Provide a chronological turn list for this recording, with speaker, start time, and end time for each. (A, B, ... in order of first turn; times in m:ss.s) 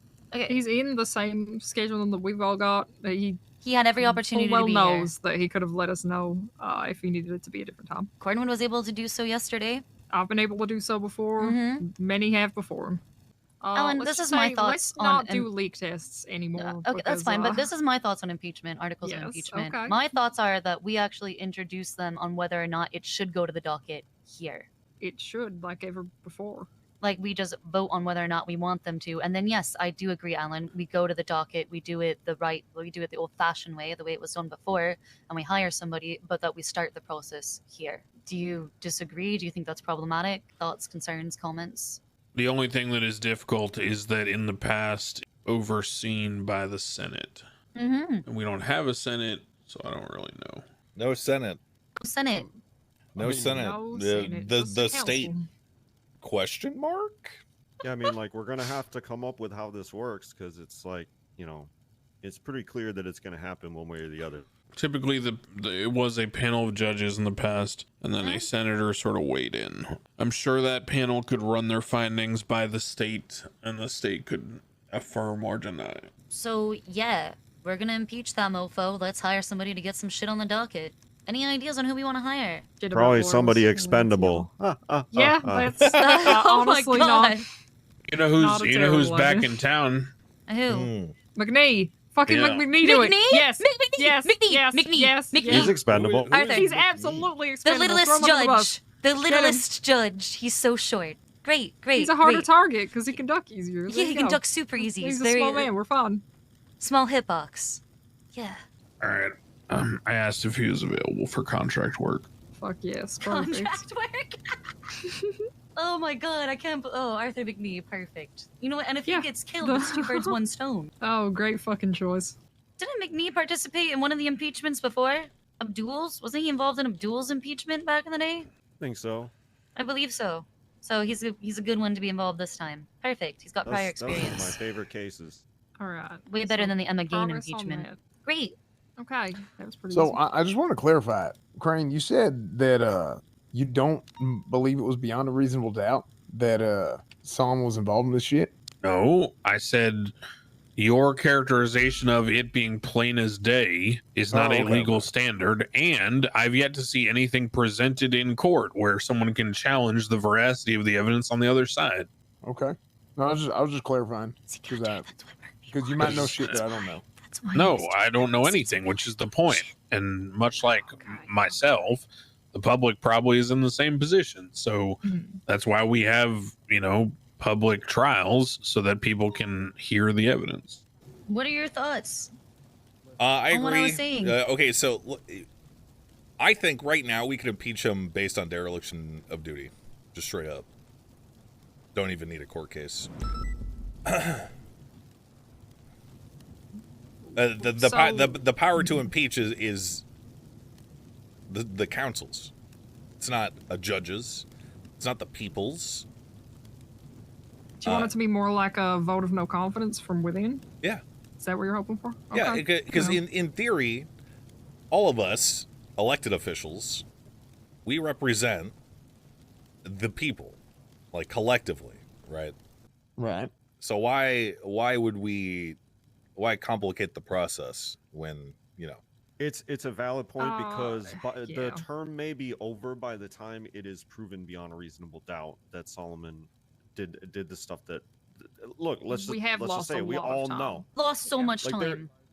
0:00.3-0:00.6 A
0:00.5-0:03.4 B
0:03.6-0:05.1 A
0:04.0-0:08.1 B
0:08.2-0:09.8 A
0:10.1-0:13.0 B
0:11.4-0:11.8 A
0:13.6-0:17.7 B
0:13.8-0:15.5 A
0:16.6-0:24.7 A
0:19.0-0:20.0 B
0:25.0-0:26.7 B
0:27.0-0:42.0 A
0:42.4-0:47.4 C
0:47.8-0:48.3 A
0:48.2-0:50.6 C
0:51.0-0:51.6 D
0:52.0-0:52.5 A
0:53.2-0:55.3 D
0:53.2-0:53.6 E
0:53.5-0:55.5 B
0:56.2-0:57.4 D
0:57.8-1:01.7 F
1:02.2-1:04.4 F
1:04.7-1:16.1 C
1:08.2-1:08.5 A
1:16.3-1:22.8 A
1:22.8-1:24.5 B
1:22.9-1:25.7 F
1:25.1-1:27.4 B
1:25.8-1:26.4 D
1:25.9-1:27.4 A
1:28.1-1:30.1 C
1:28.4-1:29.6 B
1:30.5-1:30.9 A
1:30.7-1:31.2 D
1:31.4-1:35.7 B
1:32.3-1:32.7 C
1:32.8-1:35.8 A
1:35.5-1:37.3 D
1:35.6-1:36.9 F
1:36.3-1:36.6 A
1:36.5-1:39.6 B
1:37.6-1:42.5 A
1:42.0-1:46.2 B
1:43.9-1:45.7 A
1:46.8-1:47.8 A
1:48.3-1:48.6 A
1:49.0-1:52.3 C
1:52.6-1:53.8 B
1:53.2-1:54.4 A
1:55.8-2:00.9 A
1:59.0-2:00.4 B
2:01.0-2:02.4 B
2:02.8-2:08.5 A
2:08.8-2:09.3 F
2:09.8-2:14.6 A
2:13.7-2:15.4 F
2:15.8-2:18.0 B
2:16.3-2:18.6 A
2:19.0-2:20.2 B
2:19.9-2:28.5 E
2:28.8-2:30.1 C
2:30.8-2:42.1 C
2:34.3-2:35.1 E
2:42.4-2:45.1 E
2:44.5-2:48.7 A
2:45.7-2:47.0 E
2:46.0-2:46.6 C
2:47.5-3:00.8 C
2:55.0-2:55.4 B
3:01.3-3:02.3 A
3:03.2-3:05.5 D
3:03.5-3:04.4 A
3:06.4-3:10.7 D
3:12.0-3:13.1 D
3:14.1-3:14.5 D
3:17.2-3:19.1 B
3:17.4-3:20.0 D
3:21.5-3:22.5 D
3:23.2-3:24.5 D
3:25.0-3:26.1 D
3:27.8-3:30.6 B
3:27.8-3:28.2 D
3:31.4-3:33.2 B
3:32.3-3:34.1 D
3:34.9-3:37.1 D
3:37.8-3:38.8 D
3:39.8-3:40.6 D
3:41.1-3:42.6 D
3:43.2-3:43.5 E
3:43.8-3:45.8 D
3:46.4-3:49.0 D
3:49.4-4:00.9 F
3:50.4-3:51.8 B
3:59.1-4:00.9 B
4:00.9-4:02.1 A
4:01.6-4:02.0 F